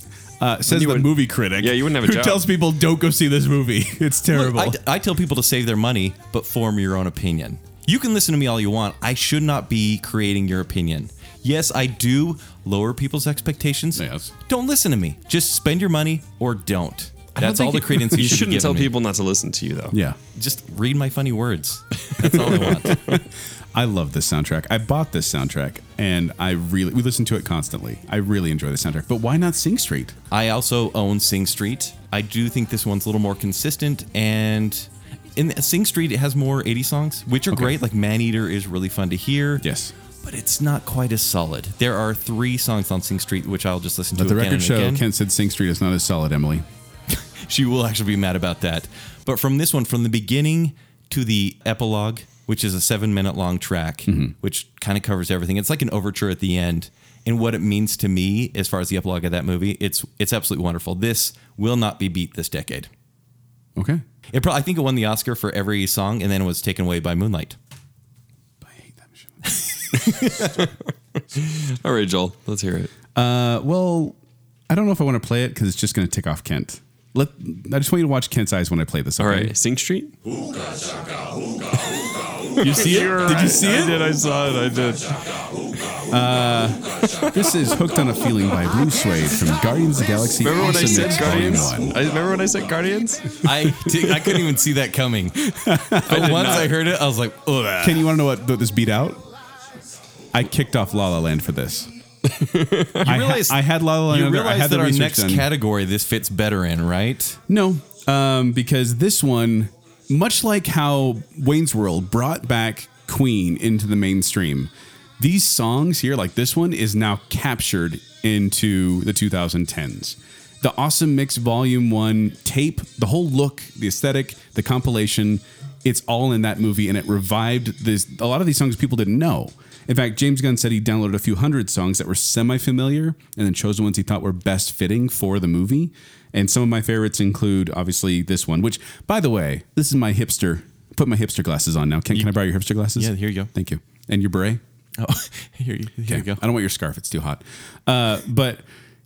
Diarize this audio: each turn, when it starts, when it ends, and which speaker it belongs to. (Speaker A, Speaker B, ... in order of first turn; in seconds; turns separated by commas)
Speaker A: 0.4-4.8, Speaker B: 0.7-2.5, Speaker C: 4.3-18.9, Speaker A: 13.9-14.3, Speaker B: 17.4-19.9, Speaker A: 19.9-20.2, Speaker C: 20.3-23.0, Speaker A: 22.2-30.1, Speaker C: 30.3-39.6, Speaker A: 37.5-37.8, Speaker A: 39.6-39.9, Speaker C: 40.2-45.0, Speaker A: 44.1-46.6, Speaker C: 47.1-62.9, Speaker A: 54.0-54.3, Speaker A: 63.8-64.0, Speaker C: 64.3-67.6, Speaker A: 68.6-69.4, Speaker C: 69.4-70.7, Speaker B: 71.6-72.9, Speaker A: 73.1-74.2, Speaker A: 74.7-79.5, Speaker B: 79.2-80.1, Speaker B: 82.5-85.2, Speaker A: 82.6-84.0, Speaker A: 86.1-91.9, Speaker B: 90.4-94.3, Speaker C: 93.4-95.4, Speaker A: 95.5-96.7, Speaker C: 96.0-98.0, Speaker B: 96.1-96.7, Speaker A: 97.8-99.2, Speaker A: 100.3-101.9, Speaker B: 102.2-103.1, Speaker A: 103.0-105.5, Speaker C: 103.0-107.4, Speaker A: 107.5-144.6, Speaker C: 142.1-142.4, Speaker C: 142.9-143.5, Speaker C: 145.0-146.4, Speaker A: 146.1-148.6